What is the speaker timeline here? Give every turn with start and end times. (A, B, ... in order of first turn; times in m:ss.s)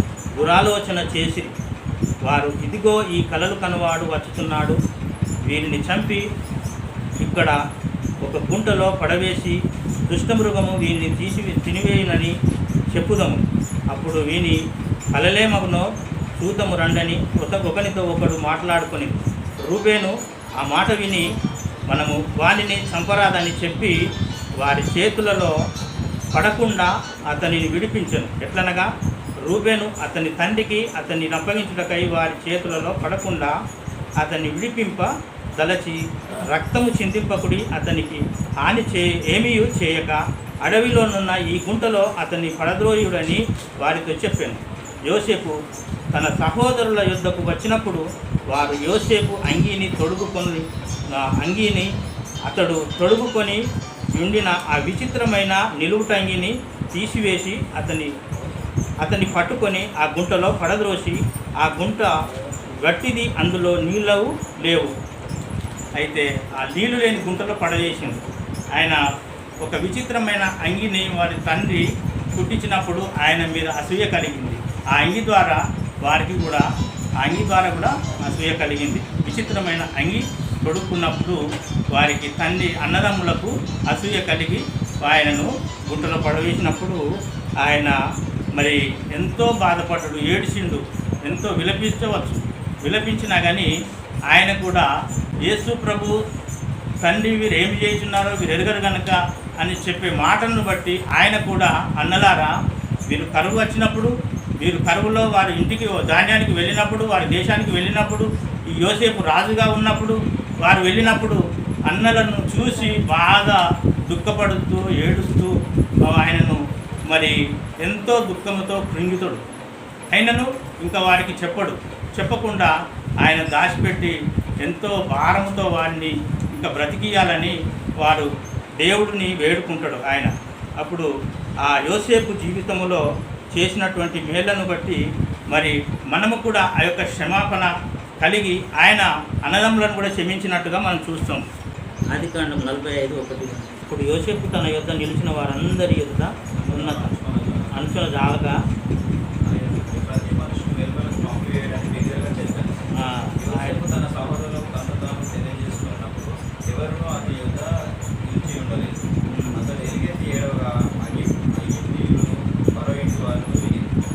0:00.3-0:01.5 A
0:02.2-0:04.8 A
0:05.4-0:06.2 A
0:07.2-0:07.6 A
0:08.2-0:09.6 A
0:10.1-0:12.4 A
0:12.9-0:14.6 A
0:15.1-0:21.3 A
0:21.9-0:23.9 A
0:24.6-0:25.5 A
0:26.3-0:28.9 A
0:29.4-0:33.6 A
0:34.2-0:36.0 A
0:36.5-0:45.6 A
0:46.1-0:51.9 A
0:52.4-0:53.6 A
0:54.2-0:58.1 A
0:59.0-1:02.1 A
1:02.8-1:04.9 A
1:06.0-1:08.2 A
1:08.8-1:09.0 A
1:09.6-1:16.7 A
1:17.2-1:21.4 A
1:21.9-1:27.0 A
1:27.6-1:28.0 A
1:28.6-1:33.7 A
1:34.3-1:34.9 A
1:35.4-1:36.2 A
1:37.0-1:42.5 A
1:43.1-1:55.5 A
1:56.1-1:56.6 A
1:57.1-1:59.4 A
2:00.1-2:08.3 A
2:08.8-2:11.1 A
2:11.6-2:13.0 A
2:13.5-2:15.0 A
2:15.5-2:21.4 A
2:22.1-2:27.1 A
2:26.6-2:27.7 B
2:27.7-2:28.6 A
2:29.4-2:32.8 B
2:33.0-2:33.8 A
2:33.4-2:37.7 B
2:38.2-2:43.9 B
2:39.3-2:39.7 A